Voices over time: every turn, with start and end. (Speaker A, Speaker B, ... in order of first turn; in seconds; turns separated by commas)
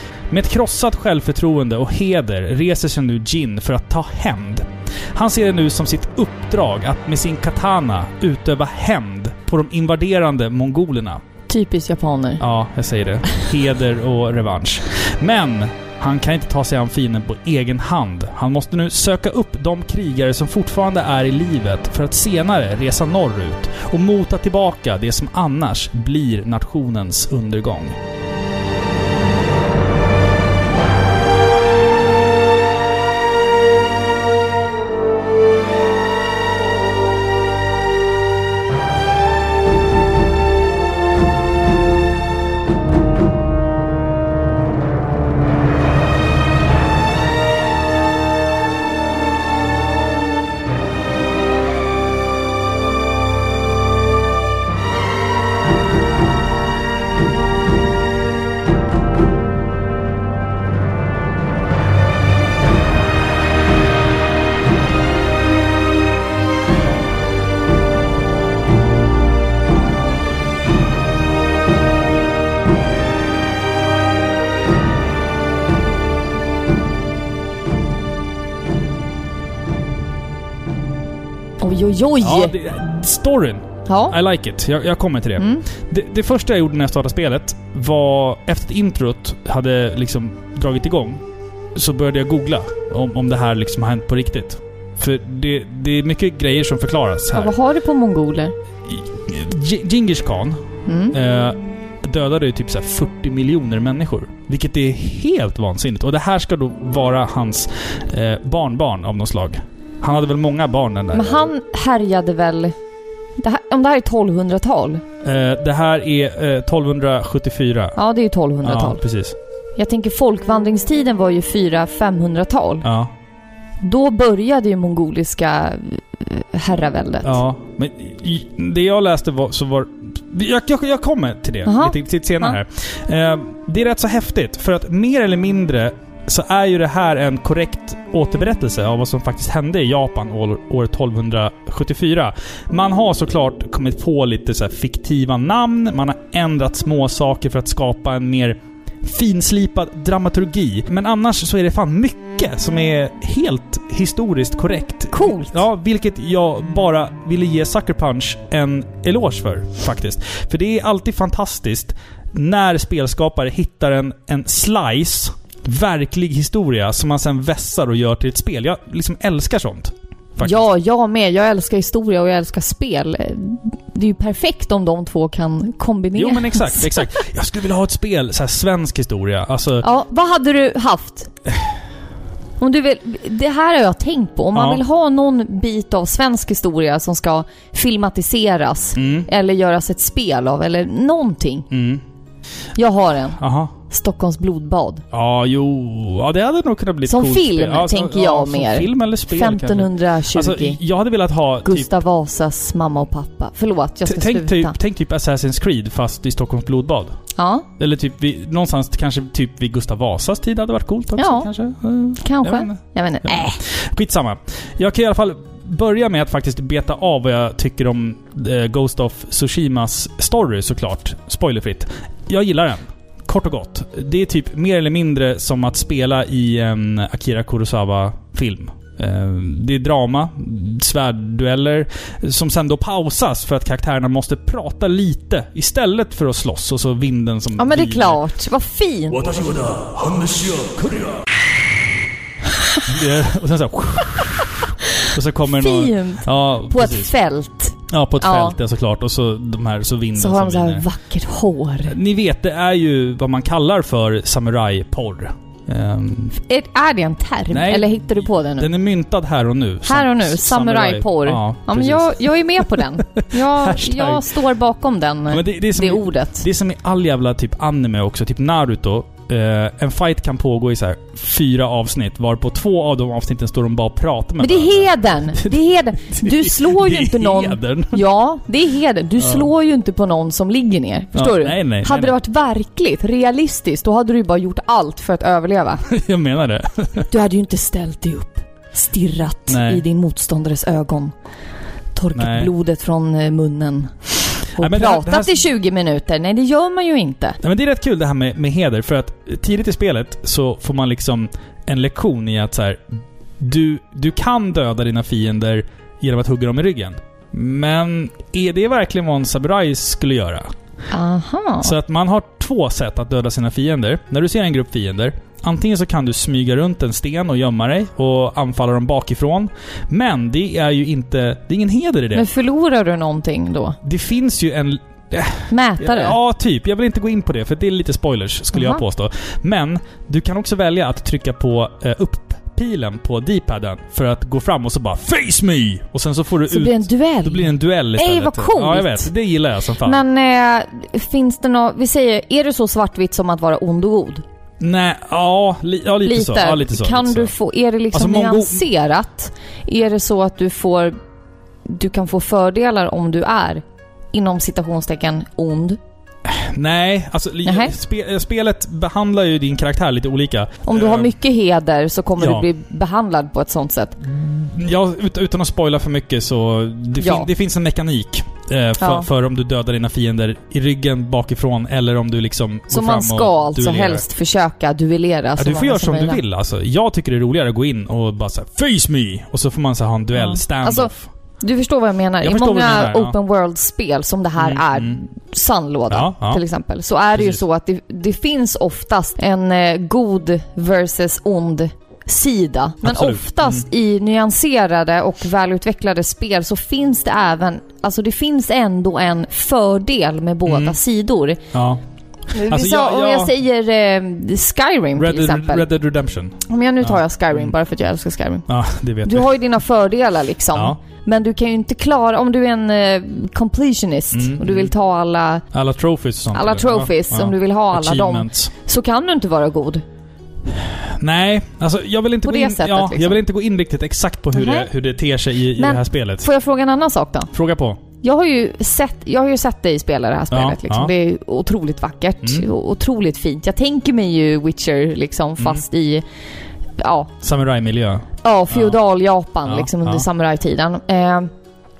Speaker A: 0.3-11.2, Speaker B: 11.5-12.4, Speaker A: 12.4-28.0, Speaker B: 81.6-82.5, Speaker A: 82.2-91.2, Speaker B: 83.8-84.2, Speaker B: 85.4-85.6, Speaker A: 91.7-97.5, Speaker B: 97.3-98.5, Speaker A: 98.9-111.5, Speaker B: 100.8-101.1, Speaker B: 111.1-112.8, Speaker B: 113.4-115.0, Speaker A: 115.2-118.0, Speaker B: 118.0-119.0, Speaker A: 118.6-119.3, Speaker B: 119.8-122.8, Speaker A: 122.8-123.1, Speaker B: 123.8-127.4, Speaker A: 127.2-170.6, Speaker B: 131.6-132.6, Speaker B: 155.1-155.6, Speaker B: 170.4-177.1, Speaker A: 176.2-179.9, Speaker B: 179.8-181.3, Speaker B: 182.6-191.7, Speaker A: 184.5-184.8, Speaker A: 188.9-189.3, Speaker A: 191.7-192.0, Speaker B: 192.8-193.4, Speaker A: 193.4-193.7, Speaker B: 193.9-195.0, Speaker A: 195.1-201.9, Speaker B: 197.1-200.8, Speaker B: 201.6-204.8, Speaker A: 204.1-207.1, Speaker B: 207.3-207.7, Speaker A: 207.8-238.2, Speaker B: 211.2-211.5, Speaker B: 212.2-213.6, Speaker B: 237.6-239.2, Speaker A: 239.1-241.2, Speaker A: 242.8-247.1, Speaker B: 245.5-248.6, Speaker A: 247.9-250.8, Speaker B: 250.2-252.0, Speaker A: 251.8-256.4, Speaker B: 256.4-258.7, Speaker A: 257.5-264.3, Speaker B: 259.9-266.4, Speaker A: 265.3-278.0, Speaker B: 274.4-285.8, Speaker A: 279.2-279.5, Speaker A: 281.1-282.1, Speaker A: 285.9-287.1, Speaker B: 287.1-291.1, Speaker A: 289.5-289.8, Speaker B: 291.9-294.0, Speaker A: 292.1-292.5, Speaker B: 294.5-297.4, Speaker A: 294.6-295.4, Speaker A: 297.4-310.5, Speaker B: 310.9-311.7, Speaker A: 311.6-322.2, Speaker B: 322.1-323.8, Speaker A: 323.8-340.0, Speaker B: 325.5-326.2, Speaker B: 328.5-328.8, Speaker B: 336.5-339.1, Speaker B: 339.8-344.2, Speaker A: 344.6-347.3, Speaker B: 346.0-350.9, Speaker A: 347.9-348.6, Speaker B: 351.6-355.8, Speaker A: 356.3-361.1, Speaker B: 357.4-357.7, Speaker B: 360.6-364.0, Speaker A: 362.2-362.5, Speaker A: 364.0-374.0, Speaker B: 367.0-367.3, Speaker B: 368.8-369.1, Speaker B: 372.7-376.2, Speaker A: 375.4-381.1, Speaker B: 380.1-401.4, Speaker A: 382.2-383.1, Speaker A: 384.4-385.0, Speaker A: 385.9-386.4, Speaker A: 387.1-387.4, Speaker A: 392.8-393.6, Speaker A: 400.5-400.8, Speaker A: 401.5-401.8, Speaker A: 402.3-403.3, Speaker B: 402.3-405.7, Speaker A: 404.9-407.5, Speaker B: 406.5-408.5, Speaker A: 408.5-409.3, Speaker B: 409.0-415.4, Speaker A: 414.1-414.7, Speaker A: 415.5-418.5, Speaker B: 416.3-419.8, Speaker A: 420.5-426.3, Speaker B: 422.2-423.2, Speaker B: 424.3-424.7, Speaker B: 425.5-427.3, Speaker A: 427.3-427.8, Speaker B: 428.0-436.0, Speaker A: 430.3-430.9, Speaker B: 436.8-437.1, Speaker A: 437.2-438.8, Speaker B: 438.2-441.3, Speaker A: 439.4-440.0